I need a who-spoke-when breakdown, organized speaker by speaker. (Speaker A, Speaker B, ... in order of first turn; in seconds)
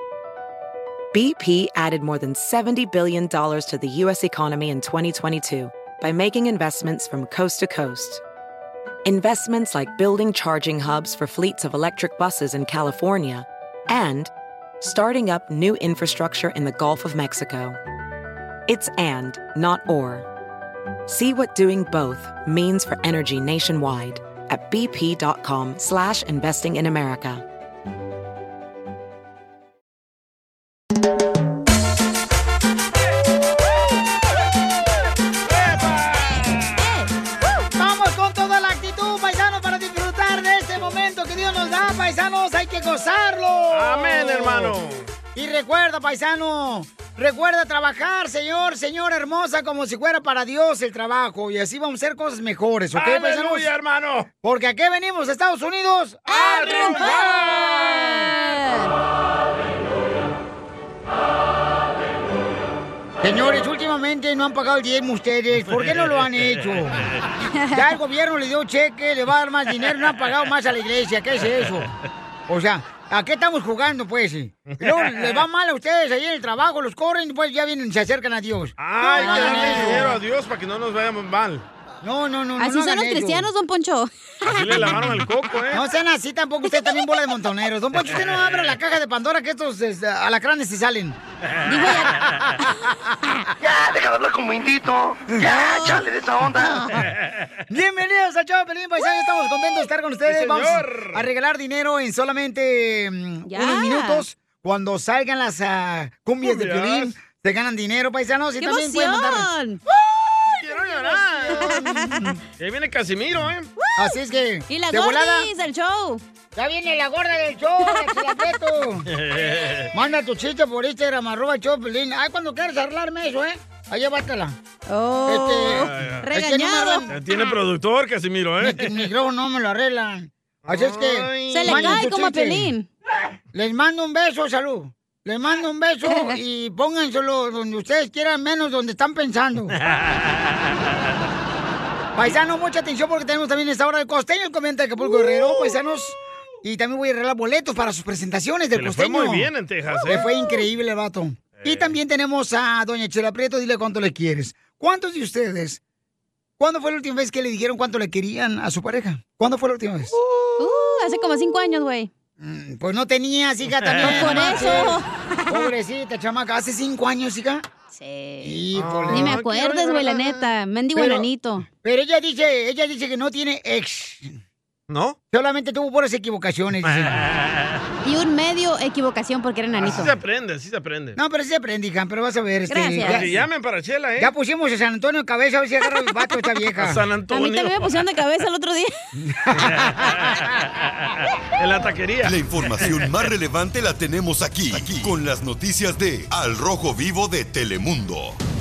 Speaker A: 1.1-8.2, 9.0-17.8, 18.7-20.2, 21.1-27.4
Speaker B: 35.5-36.6, 43.7-45.1, 52.9-54.3, 65.7-66.8, 74.7-75.5, 78.8-81.6, 84.5-85.8, 100.3-101.3, 106.4-107.1, 110.6-111.8, 112.6-113.7, 119.1-119.9, 125.8-126.3, 127.1-129.1, 130.7-132.0, 139.9-140.8, 148.7-150.3, 151.6-152.0, 163.6-164.8, 168.7-170.4, 174.9-175.2, 176.8-177.8, 179.8-181.2, 183.0-184.3, 186.8-187.8, 189.6-190.2, 191.6-192.3
Speaker C: 36.6-37.1, 56.3-58.9, 67.5-67.8, 79.2-80.0, 82.6-85.1, 91.7-92.2, 103.5-104.2, 108.6-109.8, 111.6-112.4, 113.8-114.1, 114.7-116.2, 124.9-127.1, 131.5-132.9, 136.1-136.3, 160.6-162.1, 164.0-165.7, 167.9-171.7, 178.0-180.2, 182.7-183.3, 187.3-188.9
Speaker D: 37.8-44.8, 45.3-53.7, 54.4-58.3, 63.2-67.1, 67.7-71.9, 72.5-80.2, 82.0-83.5, 85.7-91.2, 97.7-109.5, 111.1-112.3, 114.0-115.5, 116.5-119.1, 119.9-124.6, 125.3-127.2, 128.6-132.7, 133.5-139.8, 142.2-149.5, 150.1-155.8, 156.6-160.2, 162.4-167.6, 168.4-169.4, 170.9-174.4, 175.3-177.2, 181.2-183.4, 184.2-187.0, 189.2-190.3
Speaker E: 93.6-97.0
Speaker F: 192.2-198.4